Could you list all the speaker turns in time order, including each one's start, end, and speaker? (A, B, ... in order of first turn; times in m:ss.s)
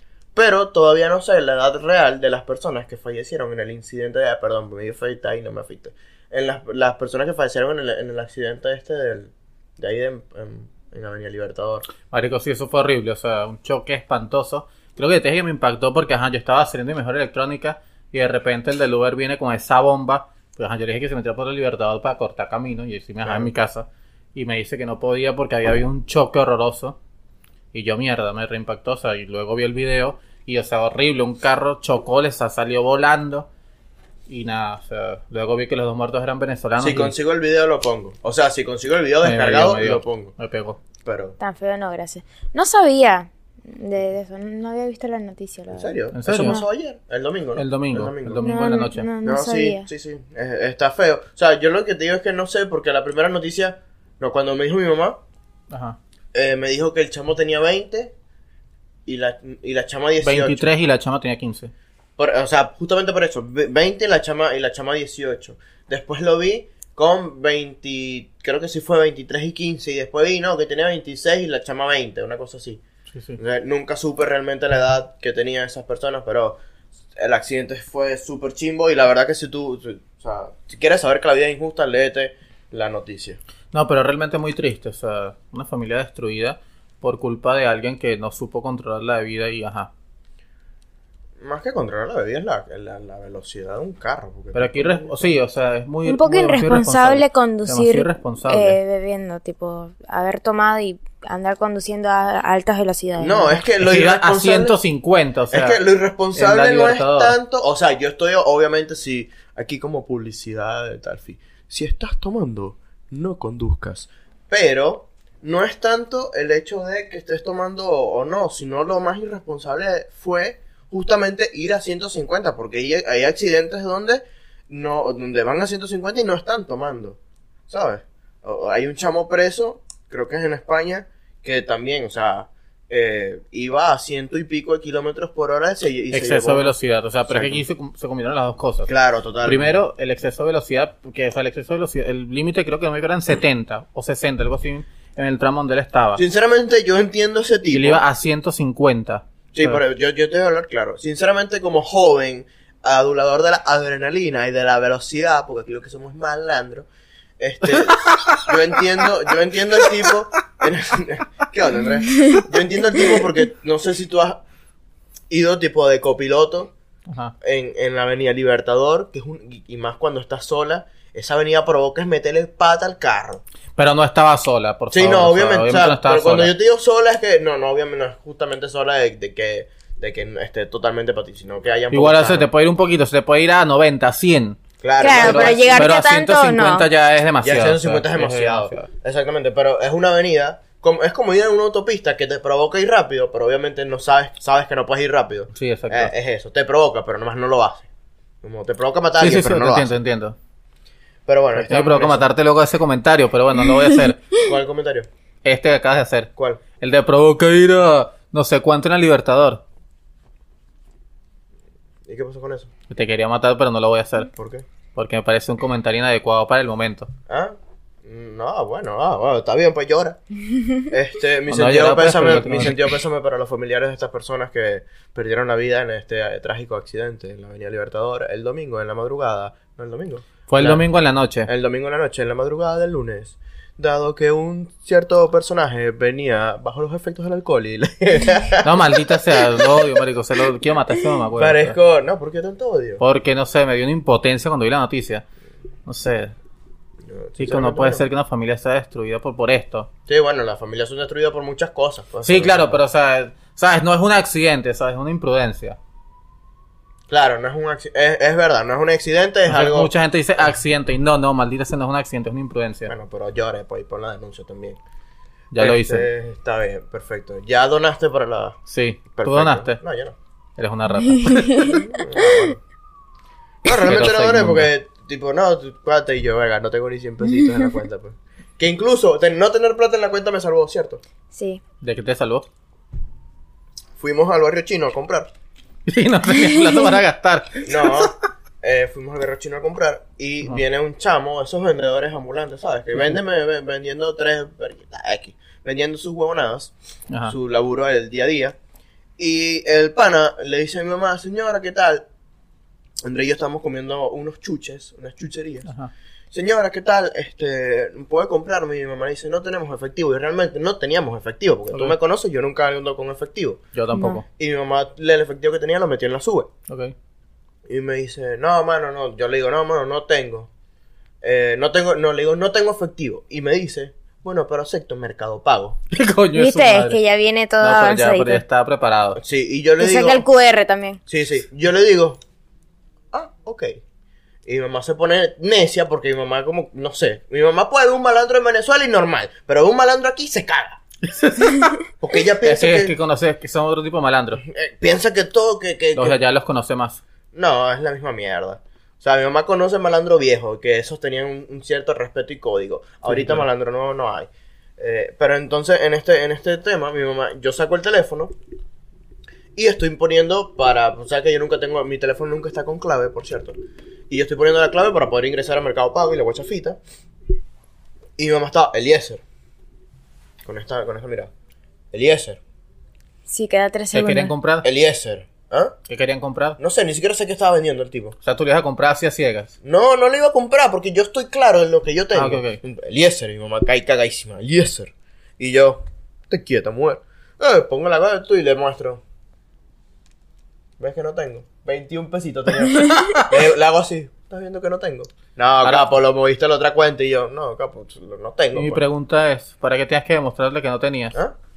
0:00.3-0:11.9 A
0:12.1-0:27.0 B
0:23.2-0:23.5 A
0:27.7-0:33.5 B
0:34.3-0:37.1 B
0:36.8-0:40.3 A
0:39.2-0:40.8 B
0:41.0-0:41.4 A
0:41.4-0:46.6 C
0:45.7-0:48.5 A
0:46.1-0:46.6 B
0:47.6-0:49.1 B
0:48.4-0:49.9 C
0:49.2-0:55.2 A
0:55.7-0:56.0 B
0:56.3-0:58.1 A
0:59.0-1:00.7 A
1:00.2-1:01.7 B
1:02.2-1:12.8 A
1:13.1-1:13.4 B
1:13.4-1:16.6 A
1:17.1-1:23.4 A
1:23.7-1:29.9 B
1:31.4-1:35.2 A
1:34.5-1:38.8 B
1:36.0-1:43.6 C
1:43.2-1:44.8 A
1:43.8-1:45.8 B
1:45.5-2:16.7 A
1:46.3-1:47.4 B
2:16.1-2:18.9 B
2:17.3-2:17.6 A
2:18.9-2:19.8 A
2:19.4-2:26.2 B
2:26.2-2:28.0 A
2:27.7-2:29.8 B
2:29.5-2:36.9 A
2:37.4-2:44.4 A
2:37.6-2:39.0 B
2:45.3-2:46.7 A
2:47.1-2:47.3 B
2:47.4-2:53.4 A
2:53.8-2:56.5 B
2:54.9-3:02.5 A
3:01.9-3:04.6 B
3:04.8-3:05.9 A
3:05.0-3:06.9 C
3:05.1-3:08.9 B
3:07.4-3:17.9 A
3:15.5-3:16.1 B
3:18.4-3:20.0 A
3:19.2-3:20.4 B
3:21.3-3:22.3 A
3:21.5-3:24.2 B
3:24.4-3:25.1 A
3:25.4-3:29.6 B
3:32.1-3:32.7 A
3:32.9-3:34.3 B
3:34.3-3:34.6 A
3:34.9-3:37.1 B
3:37.3-3:40.2 A
3:40.8-3:50.8 A
3:41.5-3:43.0 B
3:50.5-3:51.5 B
3:51.4-3:59.7 A
3:58.6-4:01.8 B
4:01.4-4:03.0 A
4:03.0-4:05.2 B
4:05.8-4:06.3 B
4:07.0-4:08.0 A
4:07.4-4:09.9 B
4:10.1-4:12.8 A
4:12.2-4:15.8 B
4:17.1-4:19.9 A
4:19.5-4:22.9 B
4:22.9-4:24.8 A
4:25.5-4:26.1 B
4:25.6-4:28.6 A
4:28.7-4:29.8 B
4:29.1-4:30.2 A
4:30.6-4:31.7 B
4:31.2-4:31.8 C
4:31.6-4:32.6 A
4:33.6-4:41.0 A
4:33.7-4:34.7 B
4:41.3-4:41.6 C
4:41.8-4:42.4 B
4:44.0-4:45.3 A
4:45.9-4:48.1 B
4:46.4-4:46.7 C
4:47.6-4:56.7 A
4:57.3-4:58.6 A
4:59.2-5:02.0 A
5:03.0-5:05.7 A
5:05.6-5:05.9 B
5:06.3-5:13.6 A
5:13.7-5:14.2 B
5:13.9-5:14.2 C
5:14.3-5:16.5 A
5:16.7-5:16.9 B
5:17.7-5:20.5 A
5:21.2-5:25.8 A
5:25.9-5:27.0 B
5:26.3-5:28.4 C
5:27.6-5:29.2 B
5:29.2-5:30.3 A
5:29.8-5:31.0 C
5:31.1-5:32.2 A
5:33.1-5:33.8 A
5:34.4-5:40.8 A
5:41.0-5:41.8 B
5:42.0-5:42.9 A
5:42.4-5:44.4 B
5:44.4-5:46.2 A
5:45.9-5:47.0 B
5:47.3-5:58.3 A
5:53.1-5:53.4 B
5:59.5-6:03.6 A
6:04.1-6:06.8 A
6:08.2-6:09.2 A
6:10.4-6:11.3 A
6:11.9-6:12.4 A
6:13.3-6:14.3 C
6:13.9-6:14.7 B
6:14.6-6:15.8 A
6:15.9-6:16.6 B
6:16.6-6:18.2 A
6:18.2-6:19.5 B
6:19.6-6:29.0 A
6:22.1-6:22.6 B
6:30.8-6:38.8 A
6:33.0-6:33.3 B
6:38.5-6:41.2 B